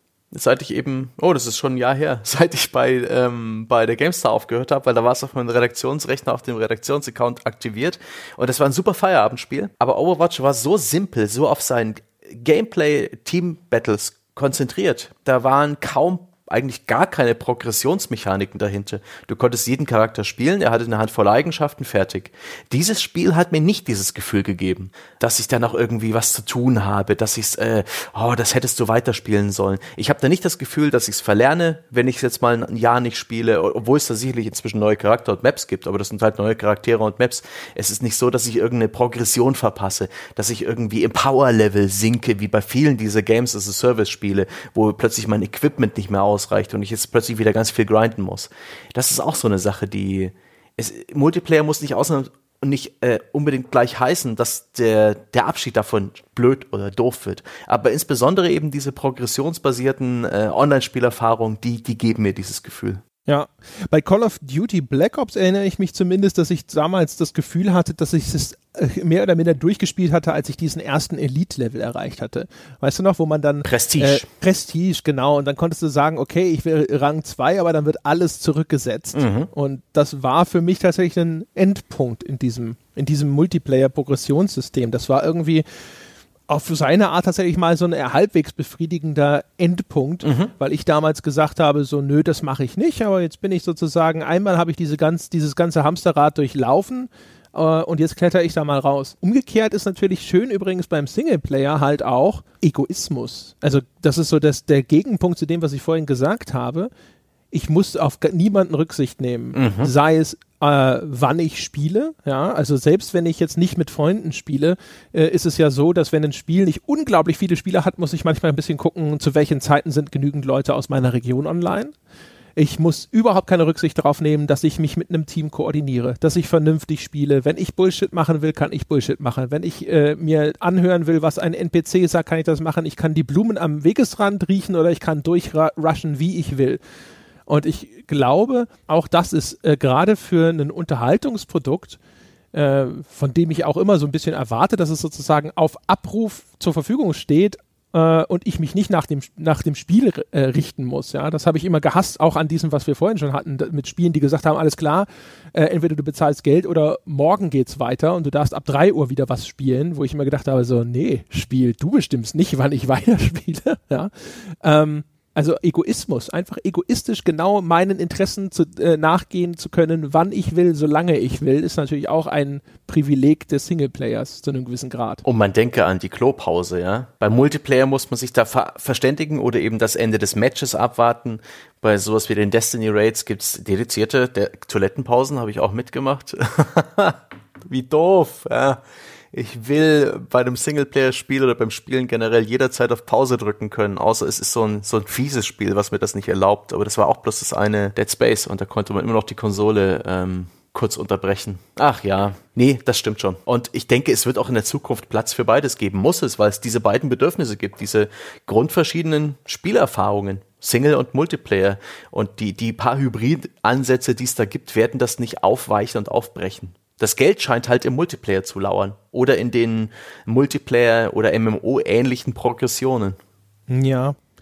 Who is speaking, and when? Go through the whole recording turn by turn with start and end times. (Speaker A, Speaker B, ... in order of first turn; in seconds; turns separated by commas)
Speaker A: 0.3-63.0, Speaker B: 63.3-85.7, Speaker A: 73.7-74.2, Speaker A: 79.1-79.5, Speaker B: 86.5-106.9, Speaker A: 90.2-90.5, Speaker B: 107.5-122.0, Speaker A: 109.5-109.9, Speaker B: 122.6-136.8, Speaker B: 137.5-142.0, Speaker B: 142.5-175.2, Speaker A: 175.2-188.8, Speaker A: 189.3-223.2, Speaker B: 223.7-224.2